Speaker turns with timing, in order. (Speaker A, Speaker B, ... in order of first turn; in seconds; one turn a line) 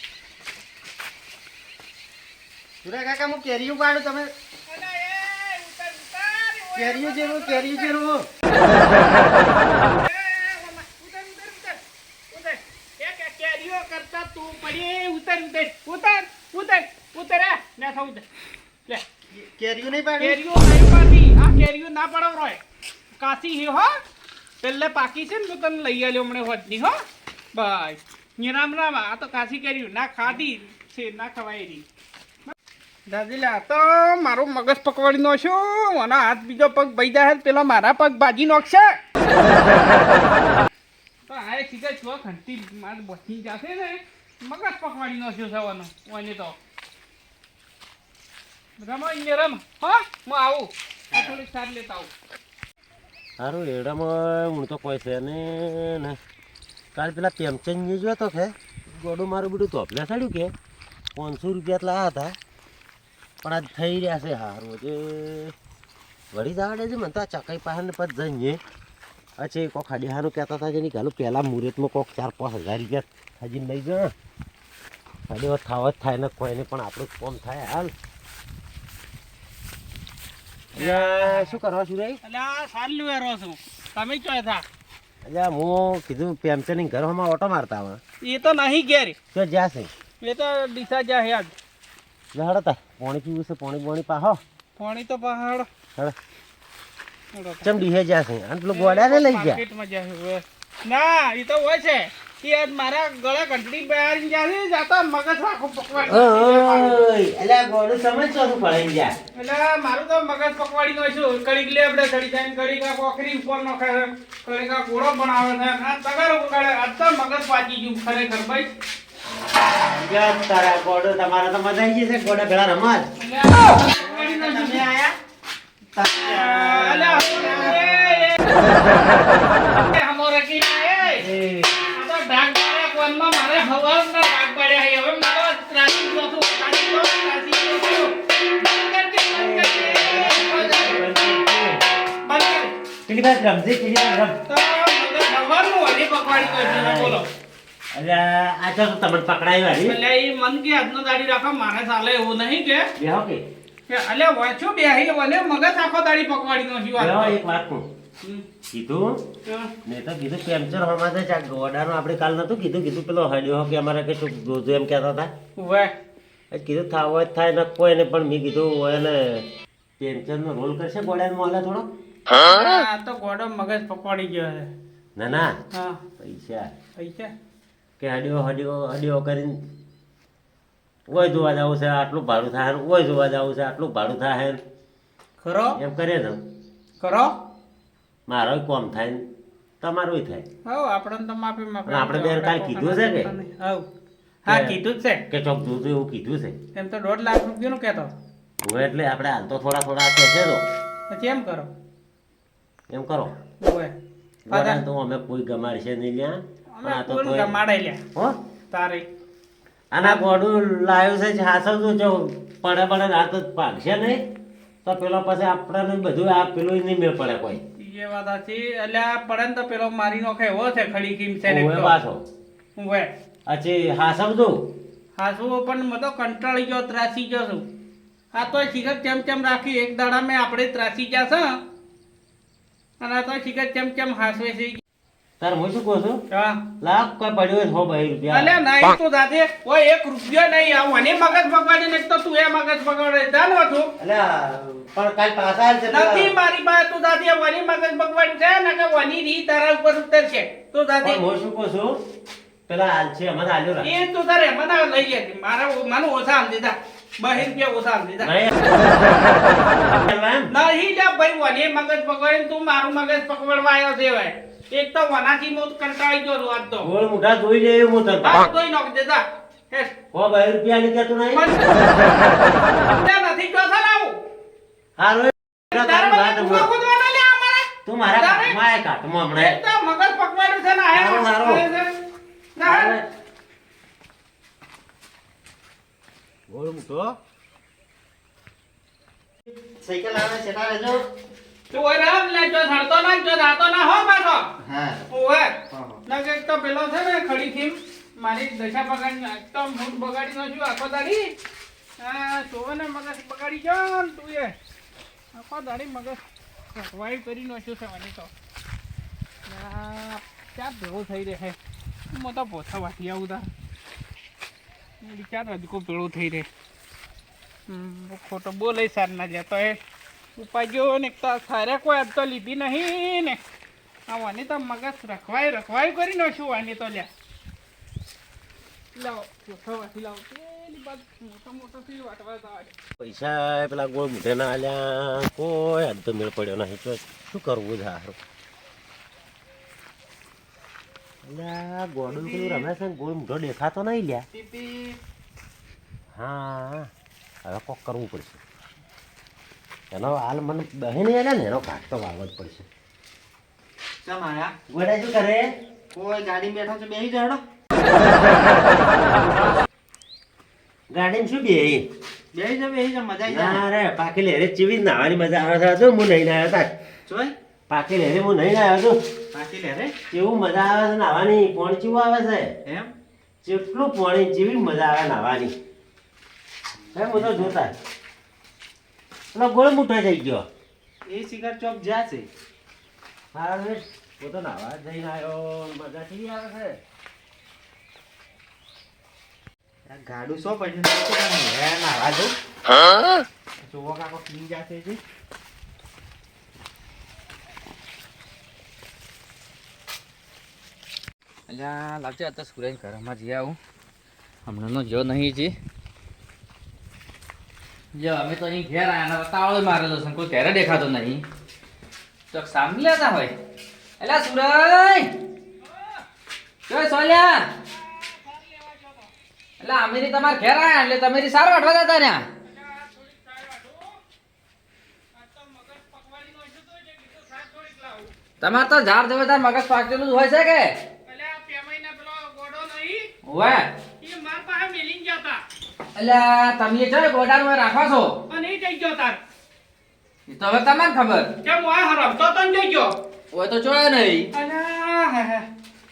Speaker A: 2.8-4.3
Speaker B: 4.7-8.0
Speaker A: 6.8-8.3
Speaker B: 9.5-11.8
Speaker B: 12.3-18.2
Speaker A: 19.3-20.4
Speaker B: 20.2-22.6
Speaker B: 23.2-24.0
Speaker B: 24.6-27.0
Speaker B: 27.5-31.9
Speaker B: 33.1-39.0
Speaker B: 41.3-46.6
Speaker B: 48.8-52.1
Speaker C: 53.4-56.2
Speaker C: 57.0-60.5
Speaker C: 61.2-62.4
Speaker C: 63.4-65.5
Speaker C: 66.3-68.6
Speaker C: 69.4-74.1
Speaker C: 75.3-77.9
Speaker C: 80.8-82.2
Speaker B: 80.8-81.6
Speaker B: 82.2-84.7
Speaker C: 85.2-88.0
Speaker B: 88.2-89.2
Speaker C: 89.3-89.9
Speaker B: 90.2-91.5
Speaker C: 92.3-94.4
Speaker B: 94.8-95.7
Speaker B: 97.3-97.7
Speaker C: 97.6-99.6
Speaker B: 98.7-107.0
Speaker C: 106.0-109.1
Speaker B: 109.3-118.7
Speaker C: 119.8-123.1
Speaker B: 123.2-124.9
Speaker A: 124.0-125.2
Speaker A: 125.9-127.8
Speaker B: 126.2-128.4
Speaker B: 129.7-131.3
Speaker C: 131.1-131.7
Speaker B: 131.9-141.0
Speaker C: 139.3-141.8
Speaker B: 142.2-142.7
Speaker C: 143.1-144.4
Speaker B: 144.5-147.3
Speaker C: 146.3-147.2
Speaker C: 147.9-150.0
Speaker B: 149.8-152.9
Speaker C: 153.0-153.4
Speaker B: 153.9-157.4
Speaker C: 157.0-157.9
Speaker C: 158.7-159.2
Speaker B: 159.4-159.7
Speaker C: 159.8-165.3
Speaker B: 165.6-165.9
Speaker C: 166.5-169.5
Speaker C: 170.0-171.9
Speaker B: 172.3-174.7
Speaker C: 175.2-175.6
Speaker B: 175.7-176.0
Speaker C: 176.2-176.7
Speaker B: 177.0-177.3
Speaker C: 178.0-179.6
Speaker C: 181.1-184.6
Speaker B: 185.4-185.8
Speaker C: 185.8-186.4
Speaker B: 187.0-187.3
Speaker C: 188.3-189.2
Speaker C: 189.8-190.4
Speaker B: 190.7-193.9
Speaker C: 191.9-193.3
Speaker B: 194.4-195.2
Speaker C: 194.5-194.8
Speaker C: 195.3-196.6
Speaker B: 196.7-198.1
Speaker C: 198.6-200.6
Speaker B: 201.1-201.7
Speaker C: 202.9-203.3
Speaker B: 203.6-203.9
Speaker C: 204.5-207.6
Speaker B: 204.5-204.8
Speaker B: 206.7-208.0
Speaker B: 208.7-209.1
Speaker C: 209.9-214.2
Speaker C: 214.8-217.6
Speaker B: 217.8-222.0
Speaker C: 221.4-222.2
Speaker B: 222.8-223.1
Speaker C: 223.5-224.7
Speaker B: 225.2-227.7
Speaker B: 228.3-231.6
Speaker B: 233.0-234.8
Speaker C: 235.4-236.2
Speaker B: 236.3-236.6
Speaker C: 236.8-238.6
Speaker B: 238.3-243.9
Speaker C: 244.0-246.3
Speaker B: 245.9-251.2
Speaker C: 251.0-252.0
Speaker C: 252.7-253.9
Speaker B: 253.8-258.3
Speaker C: 258.2-260.5
Speaker B: 260.5-266.9
Speaker C: 266.8-268.5
Speaker B: 268.2-269.9
Speaker C: 270.1-271.5
Speaker B: 271.3-272.1
Speaker B: 272.8-274.2
Speaker C: 275.0-276.7
Speaker B: 275.7-278.6
Speaker C: 277.9-279.6
Speaker B: 279.4-281.9
Speaker C: 280.9-281.7
Speaker B: 282.6-283.0
Speaker C: 282.6-283.1
Speaker C: 286.5-287.1
Speaker A: 289.8-291.1
Speaker B: 291.7-294.5
Speaker A: 294.6-295.1
Speaker B: 295.1-301.3
Speaker A: 295.7-296.0
Speaker B: 302.0-304.6
Speaker B: 305.3-306.2
Speaker B: 306.7-308.3
Speaker B: 309.5-311.6
Speaker B: 312.1-313.5
Speaker B: 315.0-316.5
Speaker B: 317.7-319.8
Speaker B: 320.4-323.4
Speaker B: 324.1-327.1
Speaker B: 328.9-332.7
Speaker C: 333.0-338.2
Speaker C: 341.2-344.3
Speaker A: 344.3-345.0
Speaker C: 346.1-346.9
Speaker C: 347.4-348.4
Speaker C: 349.9-352.7
Speaker A: 354.0-354.5
Speaker C: 354.7-355.5
Speaker A: 355.9-357.4
Speaker C: 360.9-361.9
Speaker A: 362.3-363.6
Speaker C: 363.3-366.7
Speaker A: 367.1-367.3
Speaker C: 367.7-369.0
Speaker A: 369.3-369.9
Speaker C: 370.1-372.5
Speaker A: 372.6-372.9
Speaker C: 373.4-375.5
Speaker C: 376.9-377.8
Speaker A: 377.1-377.6
Speaker C: 379.3-380.4
Speaker A: 381.1-382.3
Speaker C: 383.3-386.8
Speaker A: 389.9-392.3
Speaker A: 393.6-395.0
Speaker D: 401.5-403.6
Speaker D: 404.5-405.6
Speaker D: 407.9-411.2
Speaker D: 412.3-413.3
Speaker D: 414.0-415.1
Speaker B: 415.6-416.0
Speaker D: 416.7-417.5
Speaker B: 417.7-419.1
Speaker D: 419.6-422.3
Speaker B: 422.4-424.0
Speaker B: 425.1-428.1
Speaker D: 428.4-430.7
Speaker B: 431.1-433.1
Speaker D: 433.2-433.7
Speaker B: 434.0-435.4
Speaker D: 435.9-438.1
Speaker B: 438.3-439.2
Speaker D: 440.3-441.3
Speaker B: 441.4-442.9
Speaker D: 443.3-444.3
Speaker B: 444.3-445.5